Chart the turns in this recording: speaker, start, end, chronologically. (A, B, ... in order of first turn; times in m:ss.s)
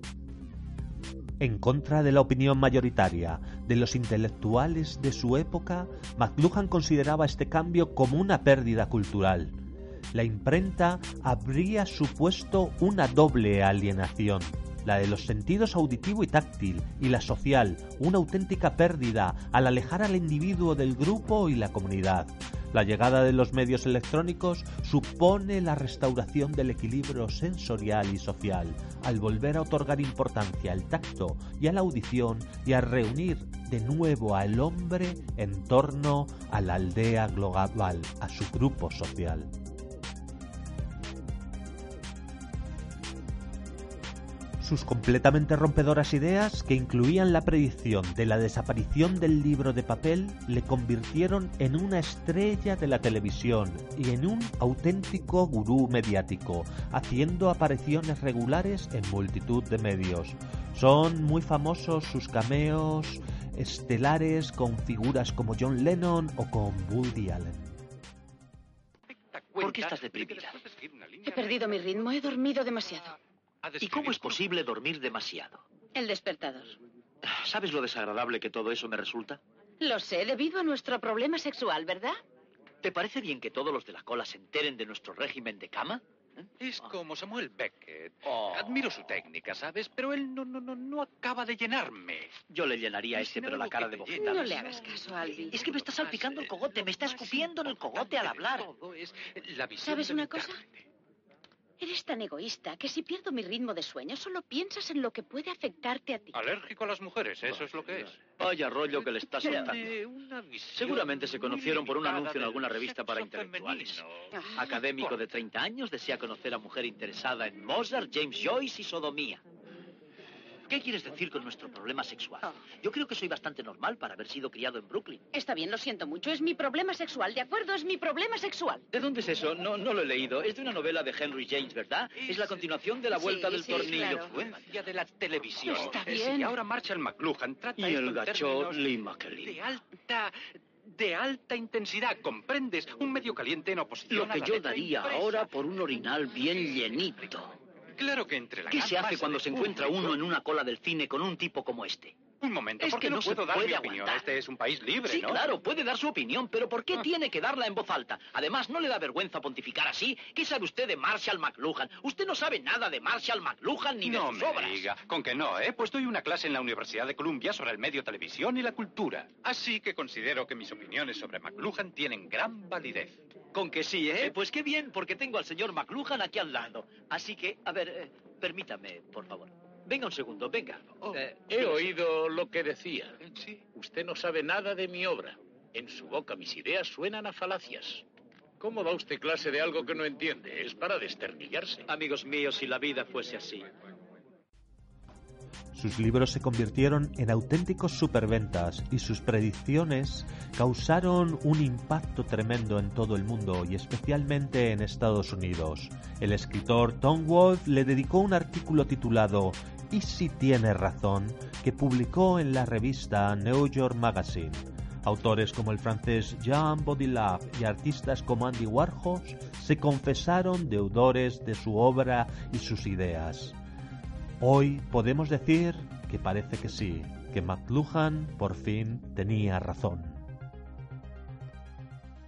0:01.4-0:09.6 A
0:10.1-0:39.5 A
0:44.6-1:07.8 A
1:09.1-1:12.0 B
1:09.6-1:10.6 C
1:11.2-1:13.2 D
1:13.6-1:14.5 B
1:13.8-1:15.6 C
1:15.9-1:16.8 D
1:17.2-1:19.4 C
1:19.8-1:22.2 D
1:22.8-1:26.5 C
1:26.6-1:32.4 B
1:28.2-1:28.8 C
1:32.5-1:34.6 C
1:33.1-1:40.8 B
1:34.1-1:35.6 D
1:35.5-1:38.7 C
1:39.8-1:40.6 D
1:41.8-1:46.4 D
1:46.3-1:48.2 B
1:48.4-1:49.9 C
1:49.0-1:55.2 B
1:50.7-1:54.0 C
1:54.5-1:59.4 C
2:00.7-2:05.2 C
2:05.3-2:08.8 D
2:08.9-2:14.4 C
2:12.2-2:12.6 B
2:13.1-2:14.3 D
2:13.5-2:20.3 B
2:15.6-2:16.6 D
2:15.7-2:16.0 C
2:17.8-2:19.6 C
2:20.8-2:25.6 B
2:24.1-2:27.5 C
2:26.5-2:26.8 B
2:28.0-2:30.2 B
2:28.7-2:32.2 C
2:32.4-2:35.4 B
2:32.8-2:34.3 C
2:35.0-2:44.9 C
2:44.0-2:53.2 B
2:53.5-3:01.9 C
3:01.5-3:03.2 E
3:03.2-3:03.6 B
3:03.7-3:08.0 E
3:08.6-3:11.8 E
3:11.9-3:13.7 C
3:15.7-3:43.5 A
3:44.4-3:50.2 A